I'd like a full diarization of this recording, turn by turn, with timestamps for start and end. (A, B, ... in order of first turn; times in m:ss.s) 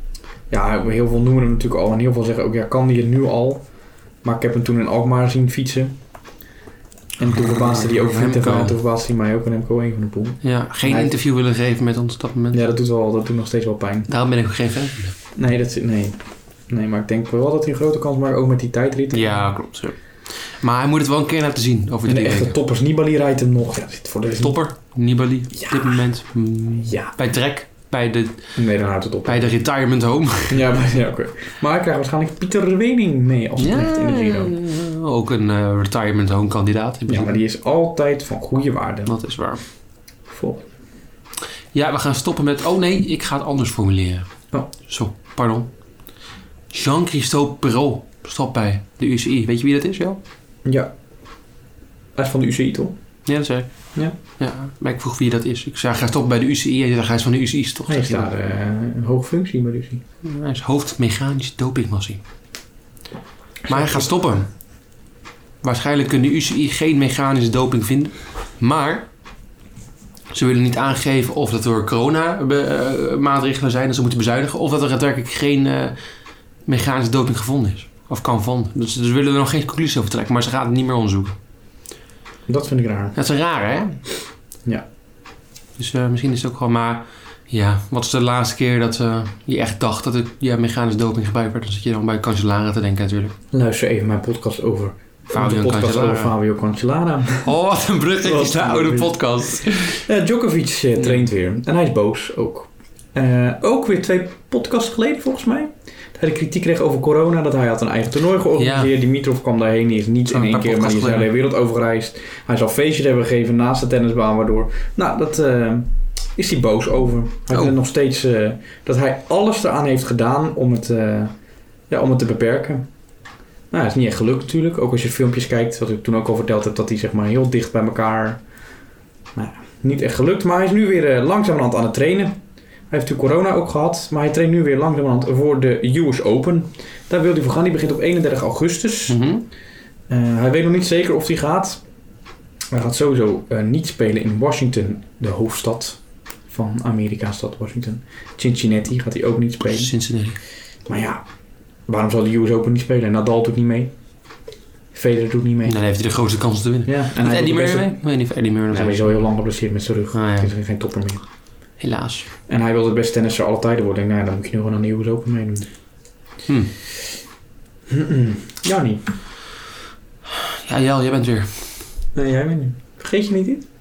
0:00.5-0:03.7 A
0:04.2-0:06.0 A
0:07.2-0:11.1 A
0:07.3-0:08.8 B
0:10.4-0:12.6 B
0:12.5-0:14.1 A
0:14.1-0:15.2 B
0:15.4-0:19.5 A
0:19.1-0:22.6 B
0:22.1-0:24.6 A
0:24.4-0:28.5 B
0:25.6-0:26.1 A
0:26.8-0:27.1 A
0:28.6-0:29.5 A
0:29.2-0:30.7 B
0:30.5-0:34.6 A
0:33.6-0:37.4 B
0:37.1-0:39.1 A
0:39.1-0:39.6 B
0:40.3-0:40.7 A
0:41.7-0:45.7 B
0:46.7-0:50.2 B
0:50.6-0:50.9 A
0:52.2-0:53.0 A
0:53.3-0:53.7 B
0:54.2-0:58.3 B
0:57.9-1:00.0 A
1:00.2-1:02.2 B
1:03.7-1:04.1 A
1:03.7-1:04.5 B
1:05.6-1:09.1 B
1:10.3-1:16.0 B
1:16.7-1:21.4 B
1:22.5-1:23.2 A
1:23.2-1:24.0 B
1:25.8-1:33.3 B
1:33.5-1:37.5 A
1:35.3-1:36.4 B
1:37.4-1:40.0 B
1:38.2-2:01.3 A
1:48.6-1:48.9 B
1:50.3-1:51.3 B
2:01.9-2:02.9 A
2:03.7-2:08.4 A
2:09.4-2:12.4 A
2:12.9-2:19.2 A
2:19.1-2:19.4 B
2:20.1-2:21.8 A
2:22.7-2:29.9 A
2:29.6-2:30.4 B
2:30.9-2:31.2 A
2:31.9-2:33.9 A
2:34.9-2:35.8 A
2:35.6-2:39.2 B
2:36.9-2:38.0 A
2:38.7-2:41.2 A
2:40.1-2:40.5 B
2:41.8-2:42.3 B
2:42.5-2:45.7 A
2:46.5-2:46.7 B
2:47.9-2:49.0 A
2:50.3-2:51.8 B
2:52.2-2:53.6 A